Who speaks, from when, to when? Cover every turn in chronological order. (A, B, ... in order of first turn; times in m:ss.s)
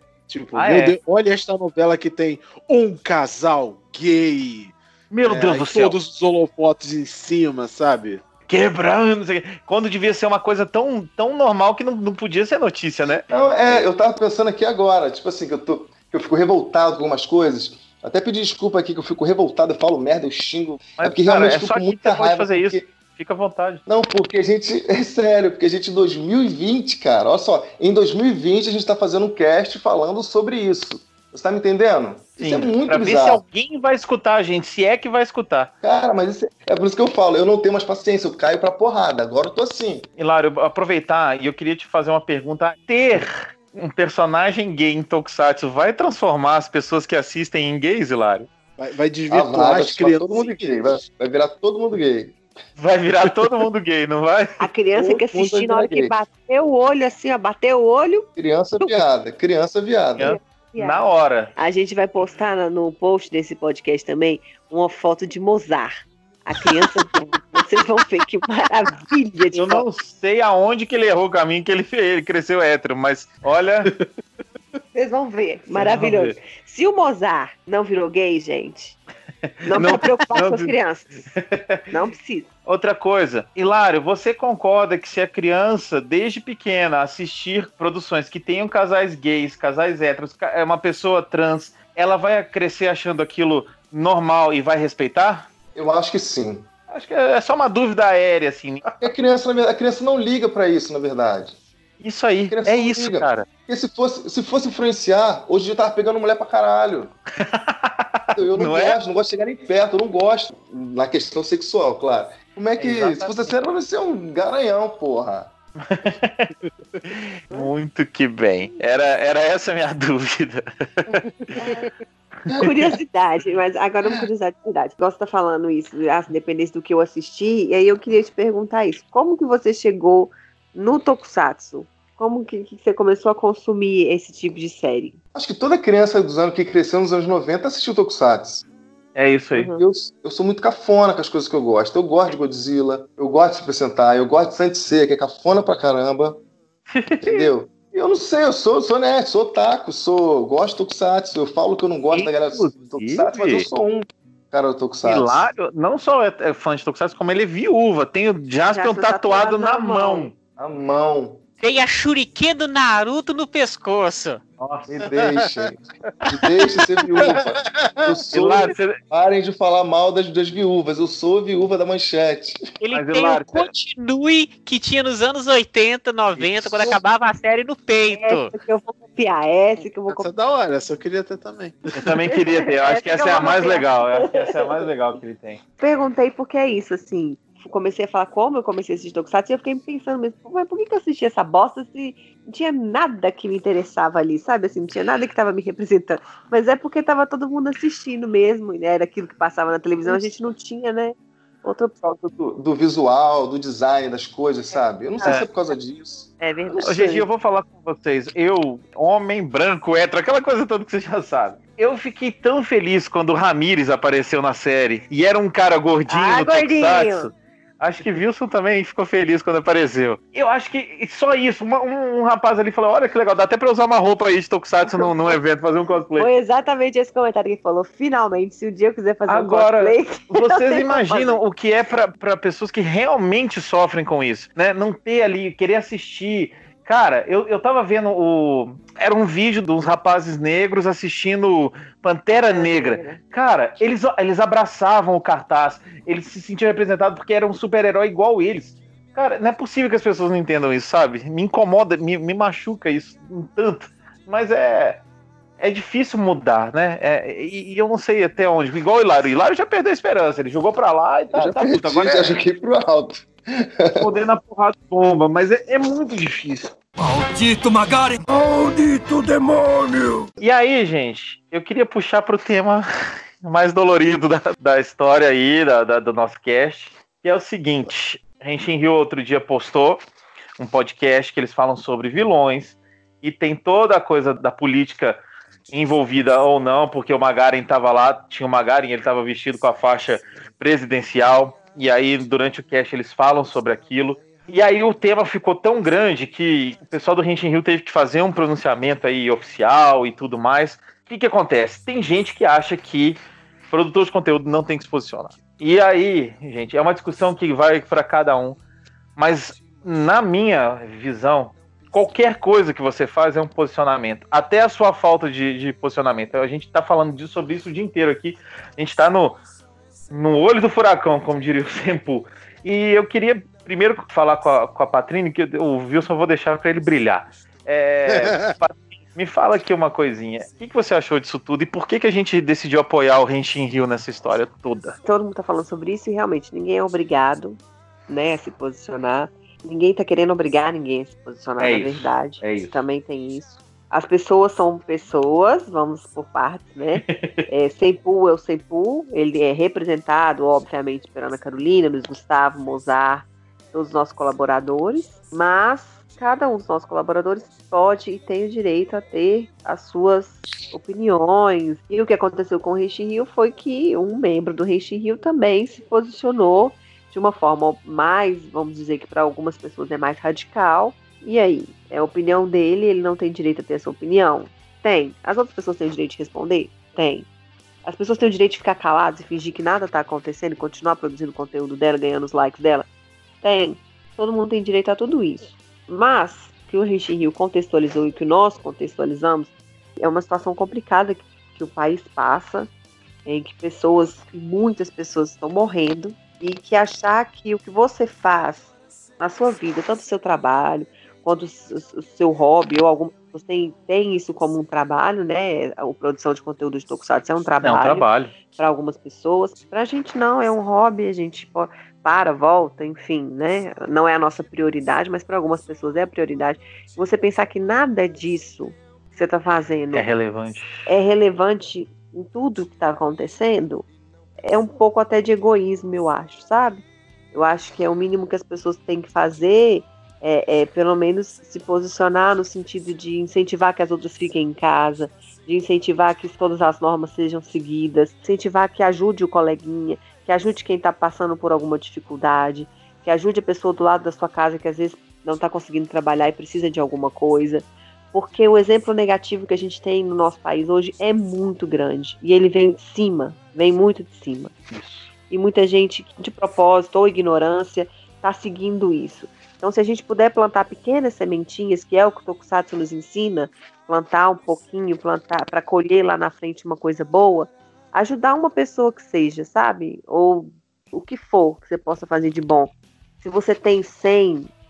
0:00.3-0:08.2 A
0:00.5-0:01.0 B
0:05.1-0:06.0 B
0:08.5-0:13.9 B
0:13.3-0:22.8 C
0:21.0-0:23.8 B
0:23.9-0:33.4 C
0:32.4-0:35.7 B
0:35.8-0:40.1 C
0:40.2-0:48.5 B
0:48.8-0:50.8 A
0:49.3-0:52.4 C
0:52.8-0:54.6 B
0:54.6-0:58.3 D
0:54.9-0:56.1 C
0:58.4-1:00.4 C
1:00.2-1:01.5 B
1:00.2-1:09.8 D
1:09.5-1:13.9 B
1:14.9-1:19.0 D
1:15.7-1:16.3 B
1:19.5-1:20.7 B
1:19.6-1:21.3 D
1:21.3-1:21.8 B
1:21.9-1:22.5 D
1:22.6-1:35.5 B
1:35.7-1:36.7 C
1:36.9-1:38.9 B
1:39.0-1:41.6 C
1:42.0-1:43.5 B
1:42.5-1:47.1 C
1:47.4-1:49.0 B
1:48.3-1:55.5 C
1:52.8-1:53.5 B
1:55.8-1:56.5 B
1:57.0-2:01.6 B
2:01.6-2:01.9 D
2:02.6-2:15.2 D
2:15.3-2:18.6 C
2:19.1-2:19.7 B
2:19.6-2:19.8 D
2:19.7-2:26.4 C
2:26.9-2:27.5 B
2:27.2-2:35.5 C
2:32.1-2:33.7 B
2:35.0-2:40.3 B
2:38.7-2:40.3 D
2:40.6-2:41.4 C
2:41.6-2:44.4 E
2:44.6-2:45.1 B
2:45.0-2:52.6 C
2:45.0-2:45.7 A
2:47.2-2:48.2 A
2:48.3-2:49.0 B
2:52.8-2:58.5 E
2:52.9-2:53.7 B
2:56.4-2:56.8 B
2:58.1-3:00.3 D
3:00.1-3:02.1 A
3:02.0-3:05.6 B
3:02.6-3:04.9 D
3:05.8-3:22.2 D
3:22.2-3:26.3 C
3:25.2-3:25.5 B
3:26.4-3:27.2 D
3:26.8-3:46.3 B
3:36.1-3:37.3 D
3:44.8-3:45.4 D
3:46.2-3:51.4 D
3:49.3-4:15.0 B
4:02.3-4:03.2 D
4:15.6-4:22.4 B
4:21.3-4:24.1 C
4:24.0-4:26.7 B
4:27.0-4:30.3 F
4:30.4-4:32.8 B
4:33.4-4:40.0 B
4:40.6-5:03.2 B
5:03.7-5:08.6 B
5:09.2-5:19.4 B
5:20.1-5:35.0 B
5:28.1-5:28.5 A
5:35.0-6:17.2 D
5:41.6-5:42.7 B
5:46.9-5:47.4 B
6:17.8-6:22.9 D
6:23.4-6:32.7 D
6:33.2-6:38.7 D
6:39.2-7:00.1 D
6:47.6-6:48.3 B
6:59.9-7:00.9 B
7:00.8-7:03.8 D
7:04.4-7:34.5 D
7:34.7-7:35.1 B
7:35.3-7:54.5 D